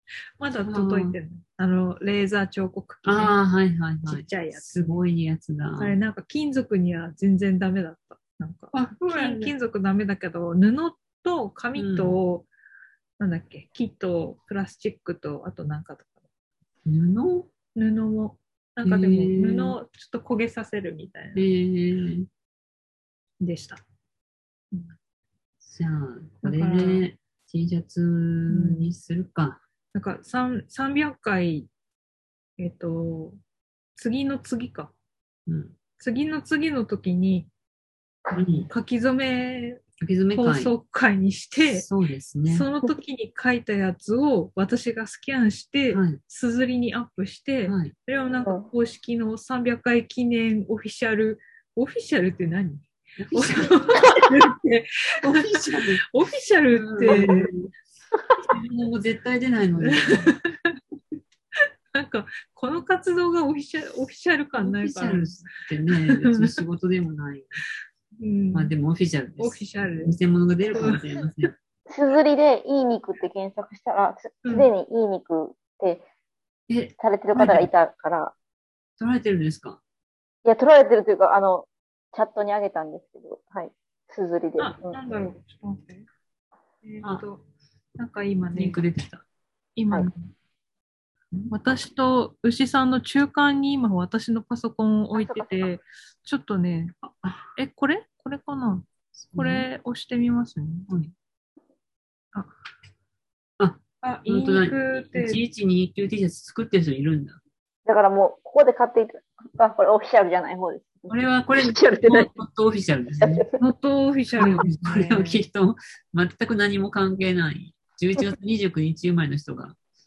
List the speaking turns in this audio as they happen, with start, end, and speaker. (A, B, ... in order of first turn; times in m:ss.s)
0:00.4-0:03.3 A
0:00.6-0:01.2 B
0:03.0-0:06.0 B
0:04.0-0:05.0 A
0:05.8-0:12.5 A
0:08.7-0:09.5 B
0:11.7-0:12.2 B
0:13.2-0:16.1 A
0:16.8-0:17.5 B
0:17.7-0:21.5 A
0:18.8-0:19.8 B
0:21.3-0:22.3 B
0:23.4-0:23.8 A
0:25.6-0:29.6 B
0:26.4-0:27.0 A
0:28.5-0:28.9 A
0:29.9-0:31.7 A
0:32.6-0:33.4 A
0:34.0-0:34.9 A
0:35.5-0:35.7 B
0:36.0-0:37.5 A
0:38.3-0:38.7 B
0:38.7-0:39.8 A
0:40.0-0:40.7 B
0:40.3-0:41.8 A
0:41.7-0:42.7 B
0:42.4-0:57.5 A
0:45.9-0:46.2 B
0:47.6-0:47.9 B
0:53.2-0:54.2 B
0:55.2-0:56.0 B
0:56.7-0:57.7 B
0:58.4-1:00.4 B
0:59.8-1:00.8 A
1:01.9-1:06.5 A
1:04.6-1:07.6 B
1:08.2-1:08.7 A
1:08.5-1:11.5 B
1:09.4-1:10.2 A
1:10.7-1:11.0 A
1:11.9-1:16.0 C
1:14.4-1:14.7 A
1:16.7-1:17.7 B
1:17.0-1:18.3 C
1:19.0-1:19.8 B
1:20.4-1:25.0 C
1:24.6-1:26.1 A
1:26.8-1:27.4 A
1:28.0-1:28.8 A
1:28.5-1:29.2 B
1:29.8-1:30.3 A
1:31.5-1:37.0 A
1:35.1-1:35.7 C
1:37.0-1:37.5 B
1:37.5-1:40.9 A
1:39.2-1:39.7 B
1:40.9-1:41.1 B
1:43.6-1:47.4 B
1:44.0-1:45.4 A
1:47.8-1:52.3 C
1:51.1-1:53.4 B
1:53.2-1:53.6 C
1:53.6-1:55.4 A
1:54.4-1:59.8 B